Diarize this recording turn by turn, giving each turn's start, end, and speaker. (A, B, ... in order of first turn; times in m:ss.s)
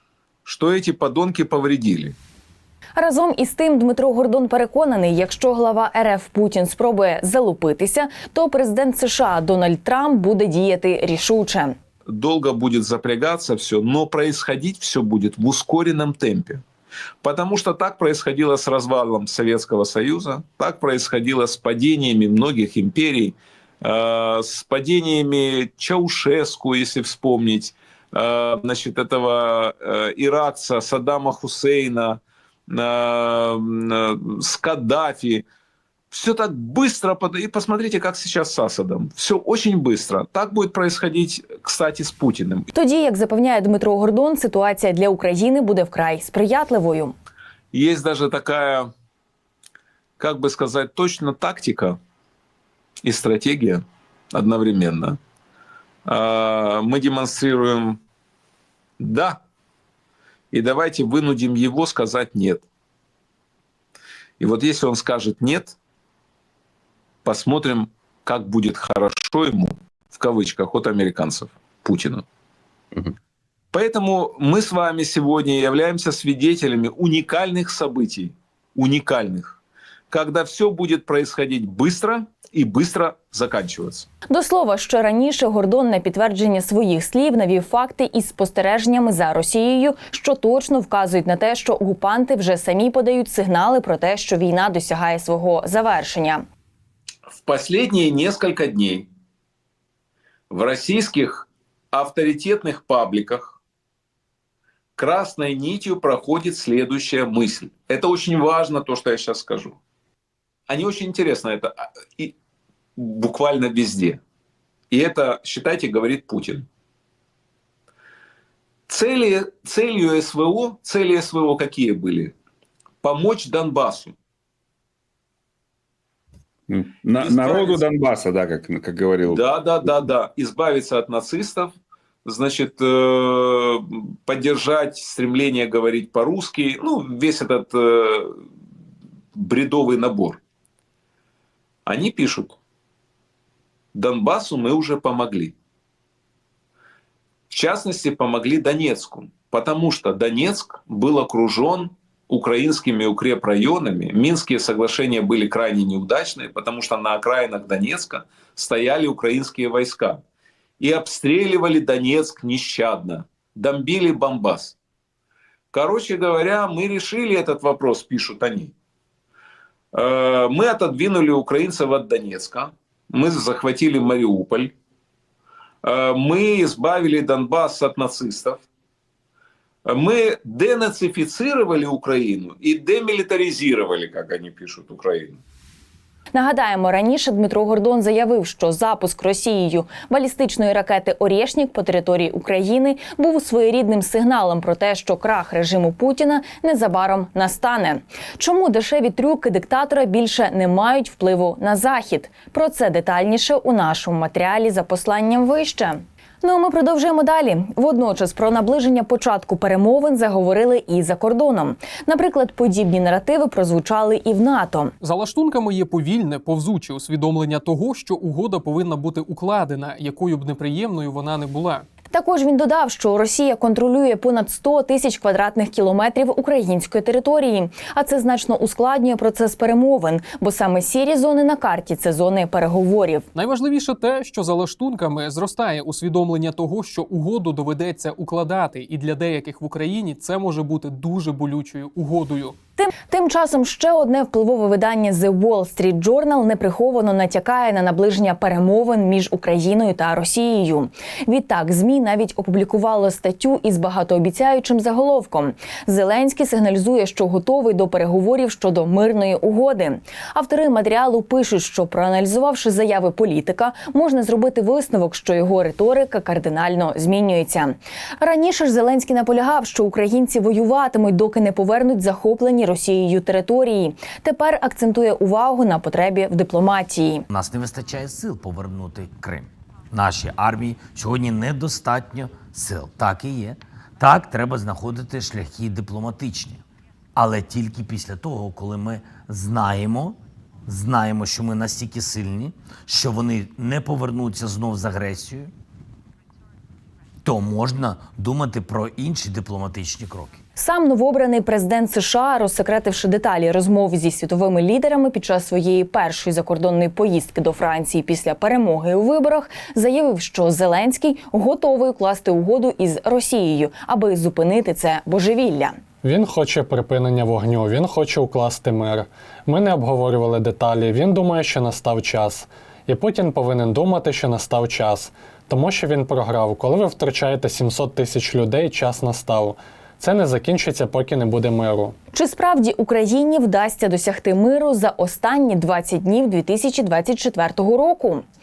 0:00.4-0:02.2 A
0:03.0-0:11.8 B
0:12.1-0:16.6 A
0:17.2-0:35.4 A
0:36.1-0:42.7 A
0:42.7-0:47.2 B
0:47.7-0:48.9 A
0:50.2-0:52.0 A
0:53.0-0:55.2 A
0:56.1-0:58.0 A
0:59.0-0:59.4 A
1:00.5-1:02.6 A
1:04.4-1:05.8 A
1:07.2-1:12.2 A
1:13.7-1:19.6 A
1:20.1-1:24.1 A
1:24.3-1:36.4 B
1:37.4-1:39.1 A
1:40.5-1:43.6 A
1:45.0-1:49.8 A
1:50.7-1:52.4 A
1:53.0-1:54.2 A
1:54.9-1:56.7 A
1:58.9-2:02.3 A
2:03.0-2:04.2 A
2:06.7-2:09.4 C
2:07.2-2:07.8 A
2:09.3-2:11.7 A
2:12.3-2:18.4 A
2:19.4-2:20.4 A
2:21.9-2:22.6 A
2:24.0-2:25.6 A
2:27.5-2:40.2 A
2:40.8-2:44.8 A
2:45.7-2:48.7 A
2:49.9-2:54.7 A
2:55.8-2:58.6 A
2:59.9-3:05.4 A
3:06.3-3:34.9 B
3:35.0-3:41.9 D
3:42.1-3:53.3 B
3:53.4-4:02.6 D
4:02.8-4:37.2 B
4:37.3-4:46.6 E
4:47.2-4:55.5 E
4:57.2-5:00.4 E
5:00.6-5:15.8 B
5:16.0-5:32.0 F
5:32.1-5:38.2 B